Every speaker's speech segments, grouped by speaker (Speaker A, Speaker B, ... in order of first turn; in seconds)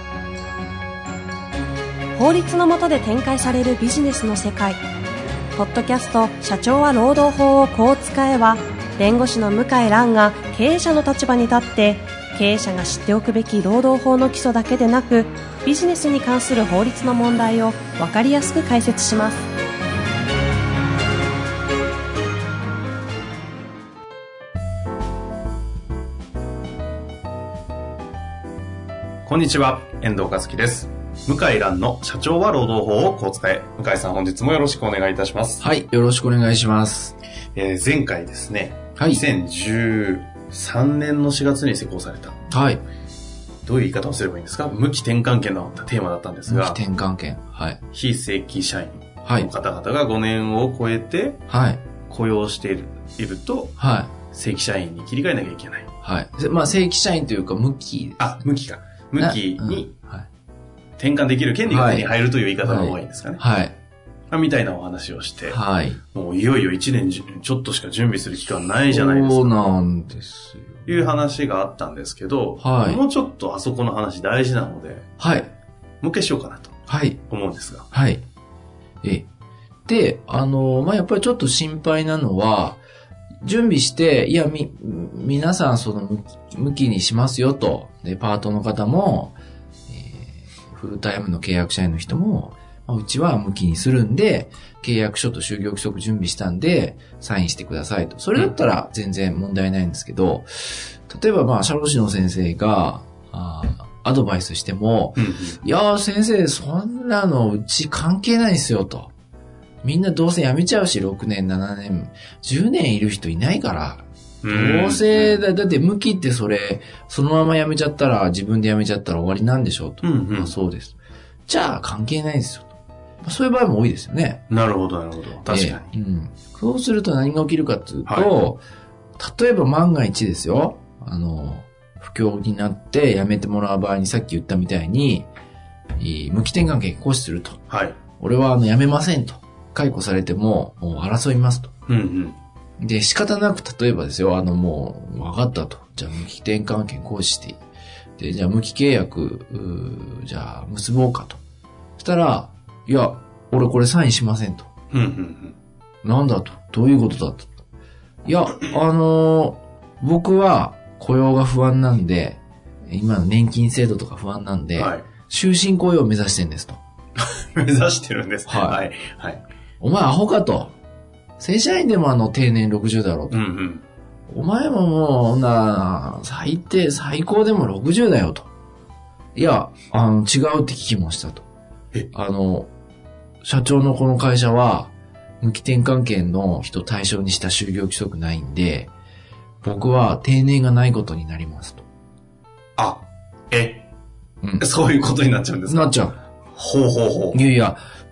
Speaker A: 2.1-4.8, 5.5-19.5
Speaker B: 29.2-35.6, 37.5-42.4, 43.6-46.8, 47.9-51.4, 52.0-53.8, 54.3-55.9, 58.2-60.0, 61.0-63.4, 64.3-65.6, 66.1-69.6, 70.9-75.0, 76.0-76.8, 77.3-77.9, 105.2-105.6, 114.4-115.5, 120.0-120.5, 124.5-125.9, 128.1-128.3, 137.7-138.0, 141.9-142.4, 154.9-155.6, 164.8-165.1, 167.2-169.4, 173.3-173.8, 192.8-193.8, 194.6-196.0, 196.5-197.4
Speaker C: 35.6-37.2, 39.0-39.2, 42.5-42.8, 46.5-47.8, 49.2-49.5, 51.5-51.9, 53.8-54.1, 56.0-58.4, 59.2-60.3, 61.7-63.8, 65.5-66.0, 68.9-71.1, 72.6-73.0, 75.2-75.5, 76.9-77.2, 77.9-78.2, 79.9-82.8, 83.4-89.3, 89.9-109.1, 109.8-121.0, 121.5-124.5, 125.5-128.6, 129.2-135.3, 136.0-137.6, 138.2-141.7, 142.8-147.6, 148.2-151.4, 152.0-154.7, 156.0-157.5, 158.2-166.8, 168.5-168.8, 169.8-170.7, 171.4-173.4, 174.3-178.5, 179.3-181.5, 182.1-182.7, 183.4-188.9, 189.6-191.8, 194.4-194.7, 195.7-196.2, 197.3-197.8